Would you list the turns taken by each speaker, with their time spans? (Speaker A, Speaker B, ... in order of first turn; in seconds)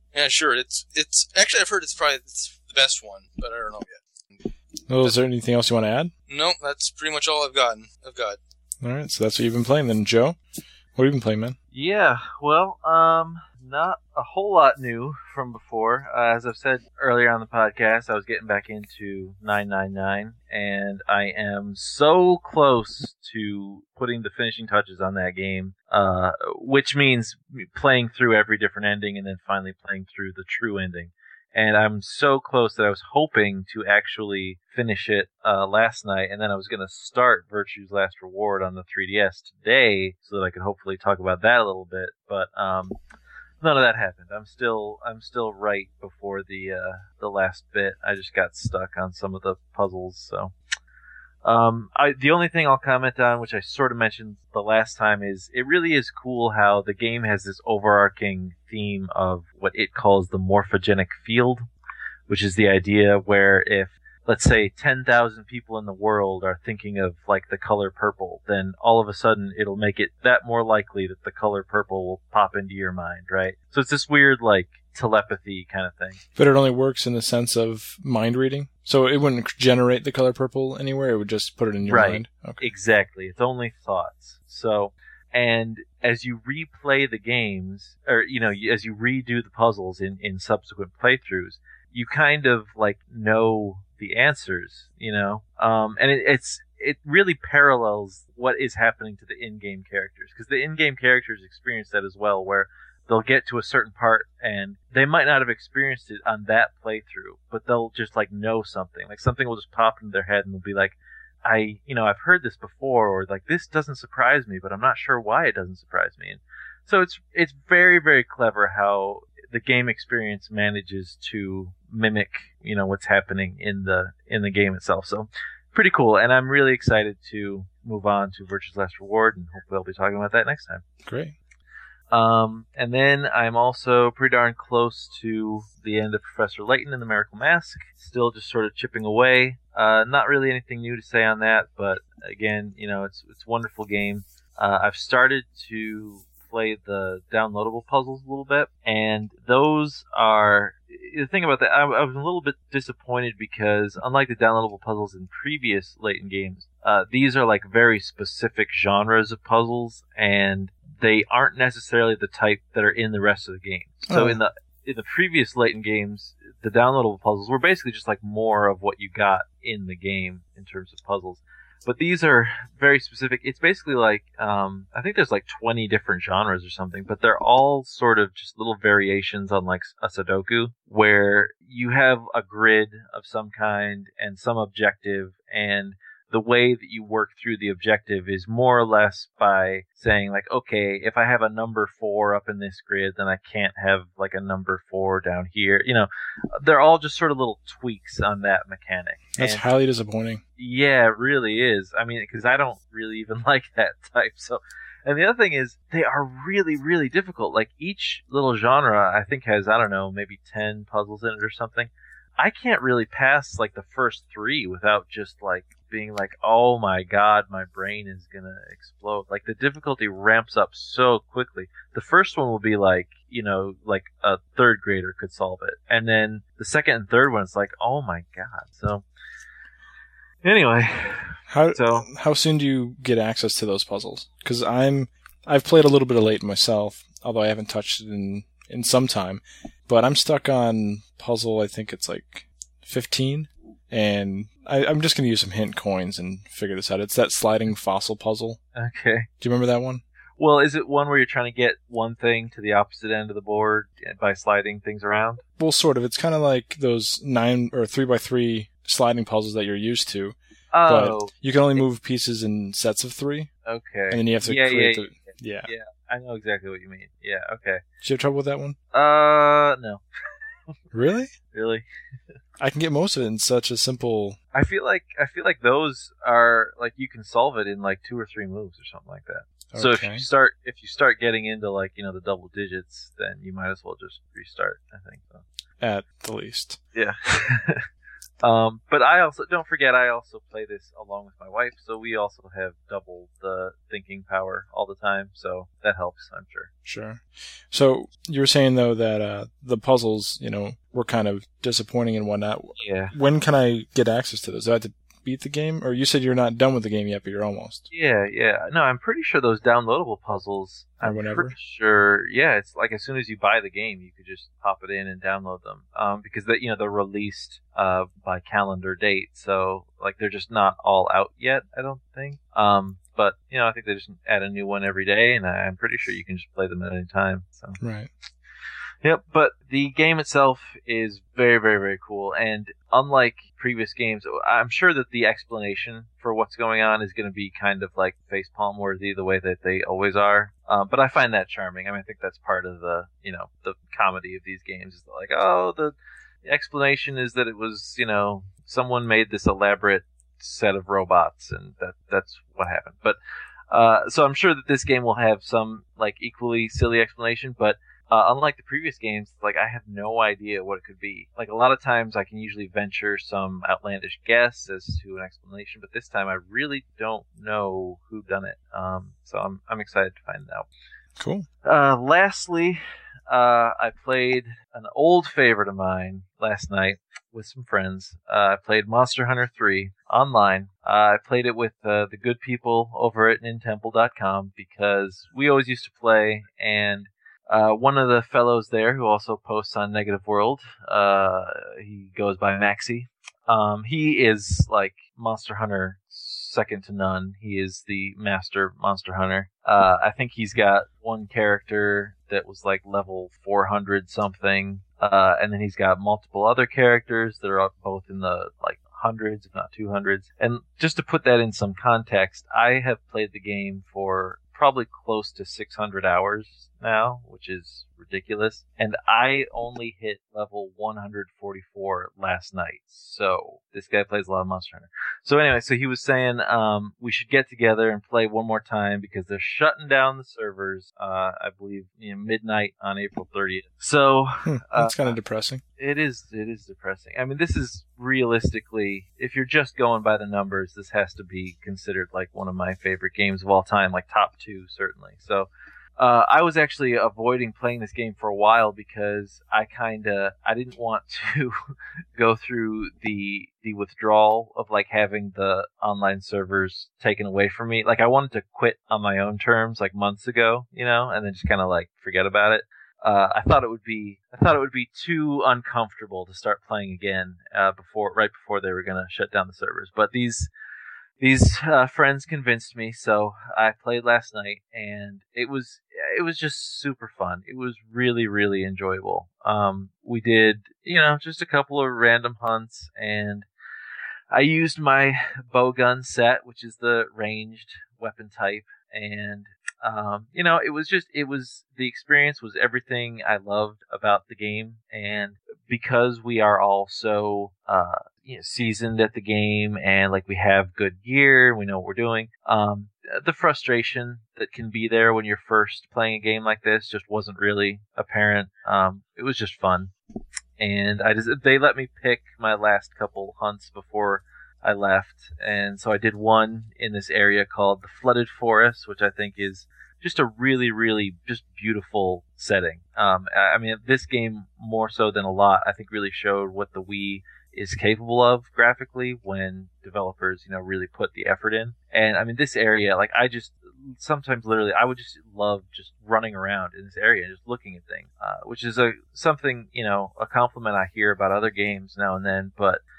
Speaker A: 0.1-3.9, 6.3-8.4
Speaker B: 4.9-6.1, 8.8-10.4, 10.9-11.6, 76.3-82.7, 131.0-131.3, 164.1-164.4, 199.4-200.4, 231.5-248.6, 249.4-250.0, 255.6-263.5, 264.1-265.7, 268.0-268.8, 270.9-271.3, 272.6-274.4, 279.7-280.2, 285.8-286.8, 296.9-307.8, 311.0-311.6, 327.8-328.1, 371.2-371.5, 434.4-435.6
Speaker C: 11.7-43.0, 43.6-50.5, 51.4-61.7, 62.3-76.2, 81.8-130.8, 132.1-199.6, 200.6-229.0, 230.4-232.1, 248.7-249.3, 250.4-255.4, 260.7-261.3, 263.6-267.8, 268.9-270.0, 271.5-271.8, 274.5-285.4, 286.9-287.9, 288.4-296.7, 302.8-303.1, 307.9-327.8, 329.0-353.2, 353.7-370.7, 371.6-435.1, 435.8-470.5, 471.2-483.5, 484.3-509.9, 510.6-542.8